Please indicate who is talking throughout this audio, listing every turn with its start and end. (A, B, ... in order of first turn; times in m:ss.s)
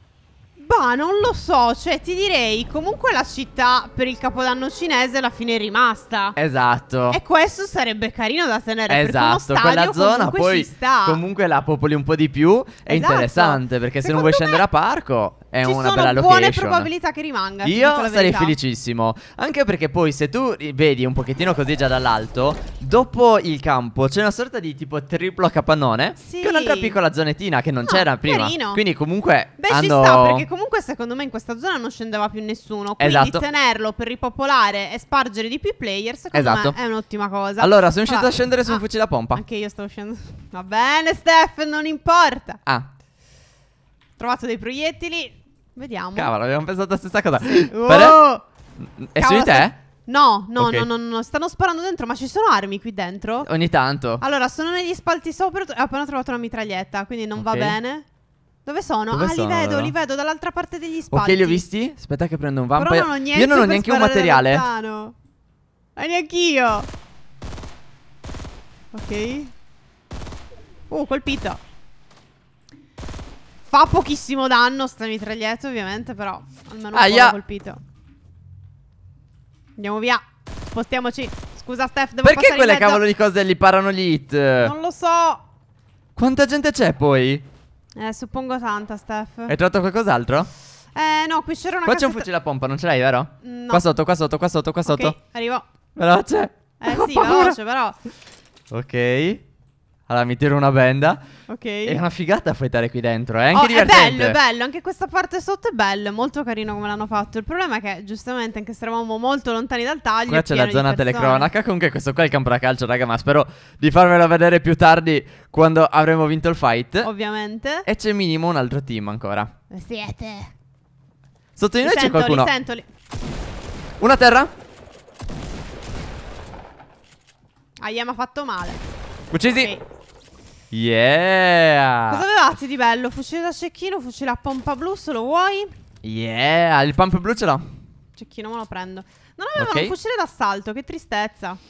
0:00.6-0:06.4 A
0:06.4-0:07.2 B
0:07.1-0:11.2 A
0:08.9-0:16.9 B
0:12.9-0:14.6 A
0:15.6-0:18.6 A
0:17.6-0:30.4 B
0:26.2-0:27.0 A
0:27.9-0:28.8 A
0:29.6-0:42.6 A
0:33.0-0:33.4 B
0:36.3-0:36.8 B
0:37.6-0:39.4 B
0:44.2-0:46.3 A
0:46.2-0:48.2 B
0:47.7-0:48.4 A
0:49.0-0:49.8 B
0:49.2-0:53.5 A
0:50.6-0:50.9 B
0:53.4-0:54.2 B
0:54.2-0:58.0 A
0:57.4-0:57.8 B
0:58.7-1:01.6 A
0:59.1-0:59.9 B
1:01.1-1:04.6 B
1:02.8-1:05.2 A
1:06.0-1:06.9 A
1:08.9-1:09.5 A
1:10.9-1:11.6 A
1:13.7-1:17.8 A
1:16.9-1:17.4 B
1:19.8-1:23.0 A
1:22.2-1:24.7 B
1:24.6-1:25.4 A
1:26.2-1:27.4 B
1:28.0-1:29.5 A
1:29.5-1:30.5 B
1:31.0-1:32.3 A
1:31.8-1:35.2 B
1:33.4-1:33.8 A
1:34.9-1:35.7 A
1:36.0-1:37.6 B
1:36.8-1:38.0 A
1:38.7-1:39.4 B
1:40.1-1:41.2 B
1:41.5-1:42.0 A
1:41.8-1:44.4 B
1:43.5-1:51.5 A
1:50.3-1:57.1 B
1:57.0-1:57.9 A
1:57.8-1:59.5 B
1:59.7-2:00.5 A
2:01.6-2:02.5 B
2:01.8-2:02.9 A
2:04.0-2:04.5 B
2:07.8-2:08.8 A
2:09.3-2:09.7 B
2:09.5-2:09.8 A
2:10.7-2:12.2 B
2:12.1-2:15.7 A
2:16.0-2:17.7 B
2:18.2-2:21.6 A
2:19.6-2:20.0 B